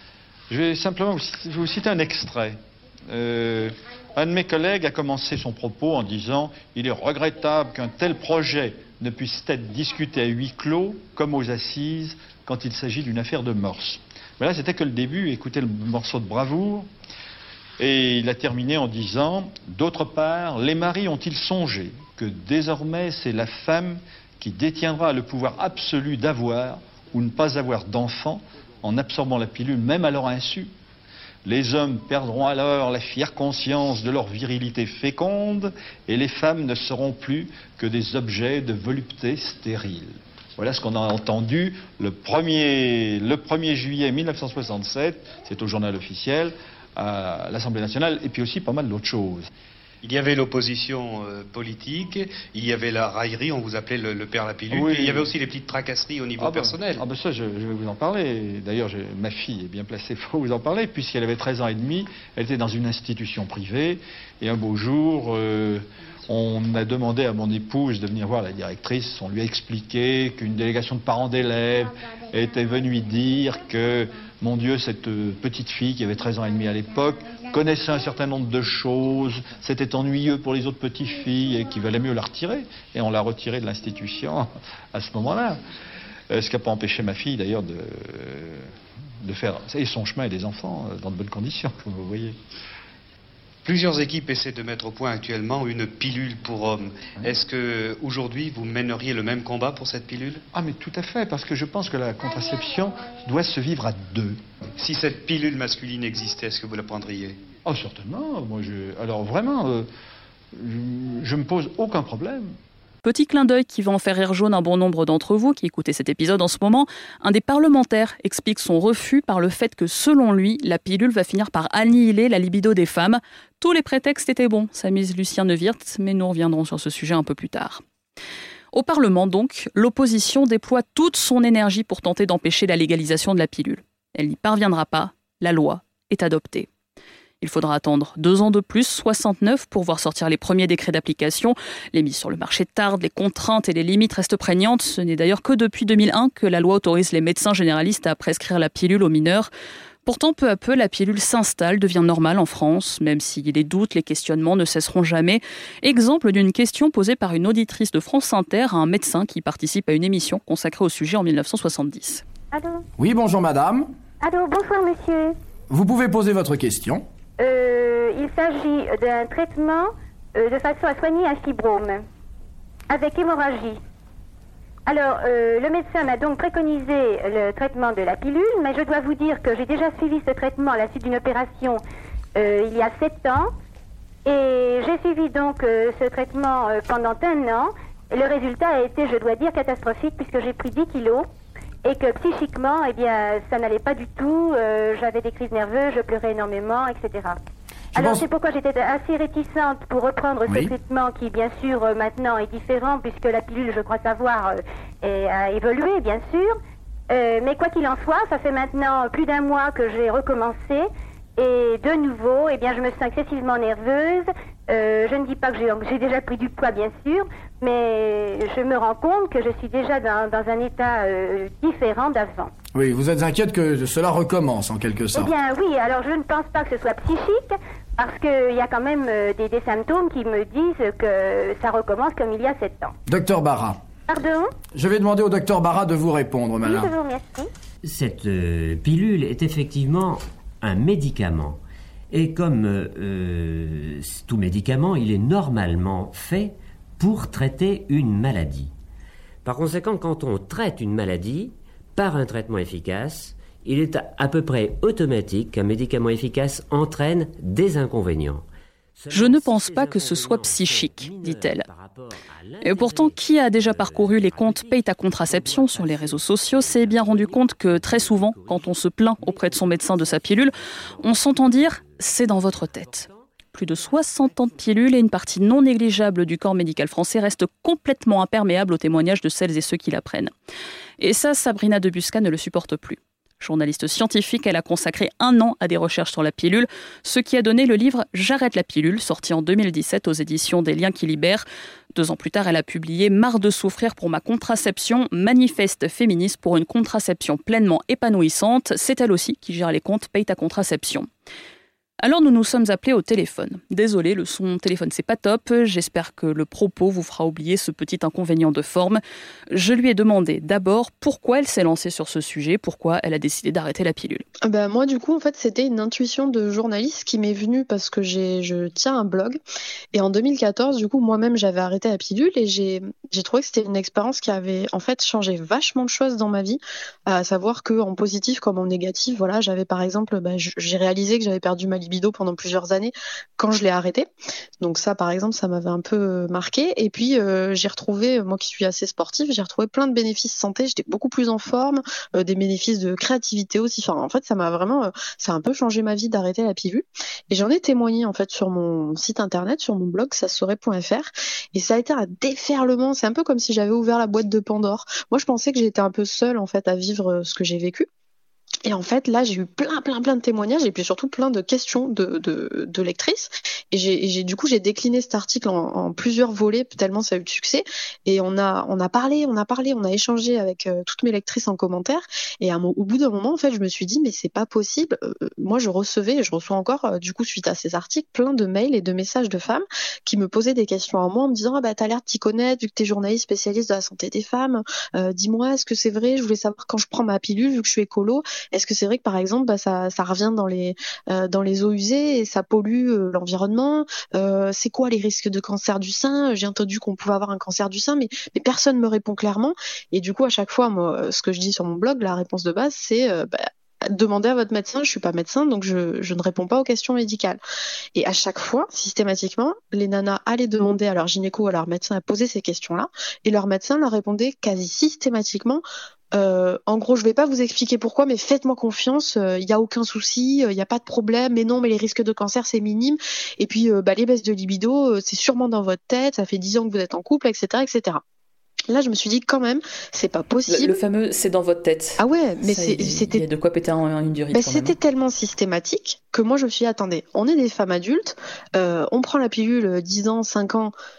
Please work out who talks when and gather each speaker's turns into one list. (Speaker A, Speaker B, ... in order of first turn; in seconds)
Speaker A: 0.5-2.5, 3.1-3.5, 4.2-16.7, 17.8-30.6, 31.5-40.0, 40.6-42.5, 43.2-46.3, 47.0-49.4, 56.5-64.0, 64.5-65.8, 66.3-71.8, 73.4-73.8, 74.4-75.0, 75.6-77.1, 77.8-78.1, 79.8-83.9, 85.0-85.6, 86.4-87.8, 89.3-92.3, 100.7-104.2, 107.7-109.8, 110.6-112.4
Speaker B: 50.0-57.1, 93.7-100.4, 104.8-107.4
Speaker C: 113.0-127.8, 128.7-136.7, 137.4-149.5, 150.1-162.2, 259.1-261.7, 262.6-280.3, 281.0-301.1, 302.0-314.2, 430.5-434.8
Speaker D: 162.5-162.8, 164.2-165.3, 167.4-172.0, 172.9-173.8, 174.9-181.8, 182.4-183.5, 184.3-191.3, 191.8-197.4, 198.0-206.6, 207.1-210.9, 211.4-222.5, 225.1-232.9, 234.1-234.5, 236.6-237.5
Speaker E: 163.0-163.9, 165.7-167.0, 197.9-198.3, 200.5-200.7, 222.7-225.3, 233.1-233.8, 234.7-236.9
Speaker F: 237.8-248.7, 249.4-275.4
Speaker G: 314.5-319.4, 319.9-334.1, 334.6-357.9, 358.6-407.4, 407.9-428.0, 428.7-430.8, 432.0-433.2, 434.3-440.7